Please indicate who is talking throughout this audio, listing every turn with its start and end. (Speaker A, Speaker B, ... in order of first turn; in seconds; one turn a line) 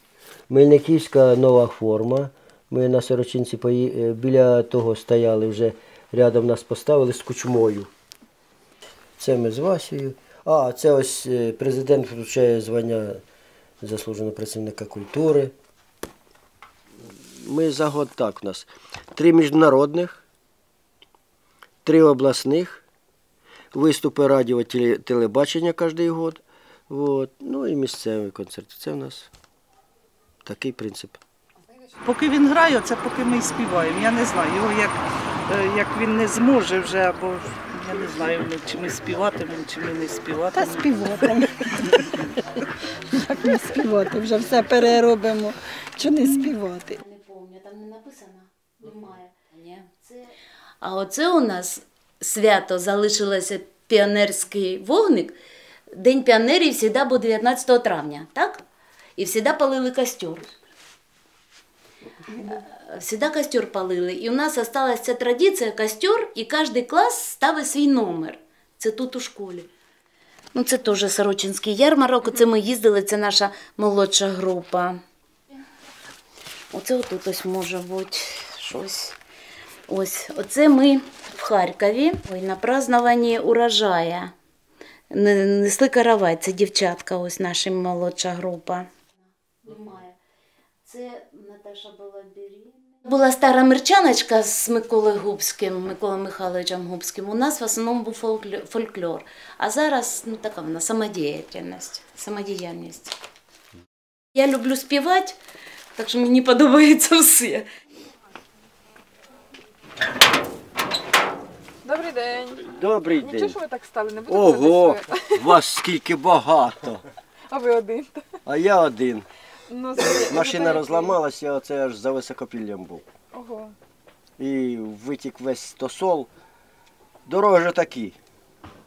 Speaker A: 0.5-7.9
Speaker A: 9.2-13.2
Speaker A: 13.8-15.5
Speaker A: 17.4-20.2
Speaker A: 21.8-22.8
Speaker A: 23.7-29.3
Speaker A: 30.4-31.2
Speaker B: 32.0-41.5
Speaker C: 40.5-41.5
Speaker C: 43.1-47.0
Speaker D: 46.9-55.3
Speaker D: 55.9-58.6
Speaker D: 59.2-60.5
Speaker D: 62.3-69.7
Speaker D: 70.5-75.0
Speaker D: 76.7-79.2
Speaker D: 79.9-84.3
Speaker D: 85.1-88.9
Speaker D: 89.6-90.1
Speaker D: 90.8-103.1
Speaker D: 104.3-105.4
Speaker D: 106.0-107.6
Speaker E: 111.8-112.5
Speaker A: 112.6-113.6
Speaker E: 113.3-114.7
Speaker A: 114.3-117.0
Speaker E: 117.5-118.1
Speaker A: 118.5-119.3
Speaker A: 120.0-123.0
Speaker E: 123.3-123.7
Speaker A: 124.4-126.3
Speaker A: 127.3-128.2